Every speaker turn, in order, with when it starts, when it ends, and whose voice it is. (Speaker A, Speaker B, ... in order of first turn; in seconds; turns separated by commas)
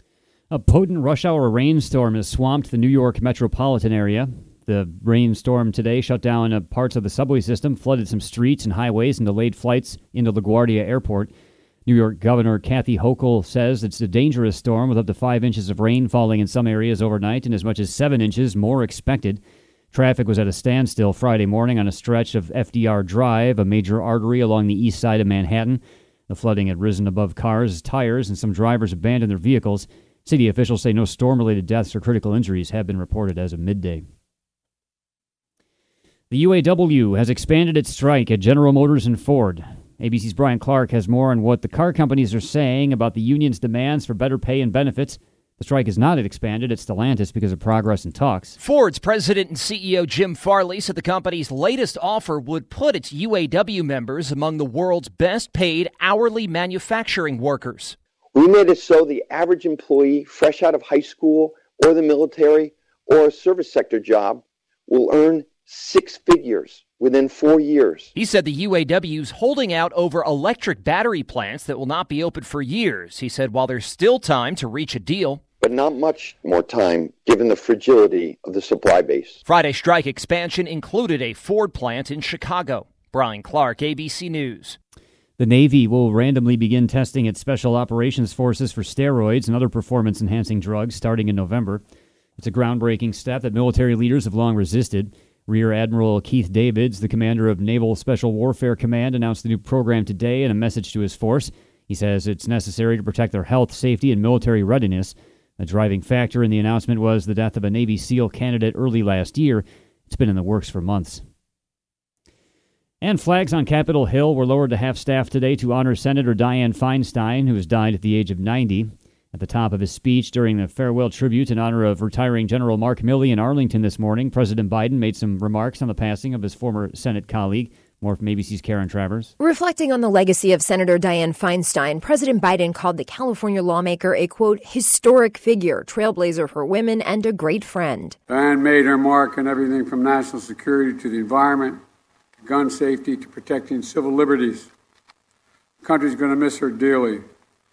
Speaker A: 0.5-11.3, Speaker A: 11.8-19.4, Speaker A: 19.9-34.0, Speaker A: 36.3-48.5, Speaker B: 48.6-58.0, Speaker C: 58.3-68.1, Speaker B: 68.1-75.4, Speaker C: 75.6-79.4, Speaker B: 79.4-84.8, Speaker A: 85.4-91.8, Speaker A: 92.4-111.2, Speaker A: 113.0-129.3, Speaker D: 129.4-138.2, Speaker E: 138.3-141.8, Speaker E: 142.4-144.7, Speaker E: 145.8-147.2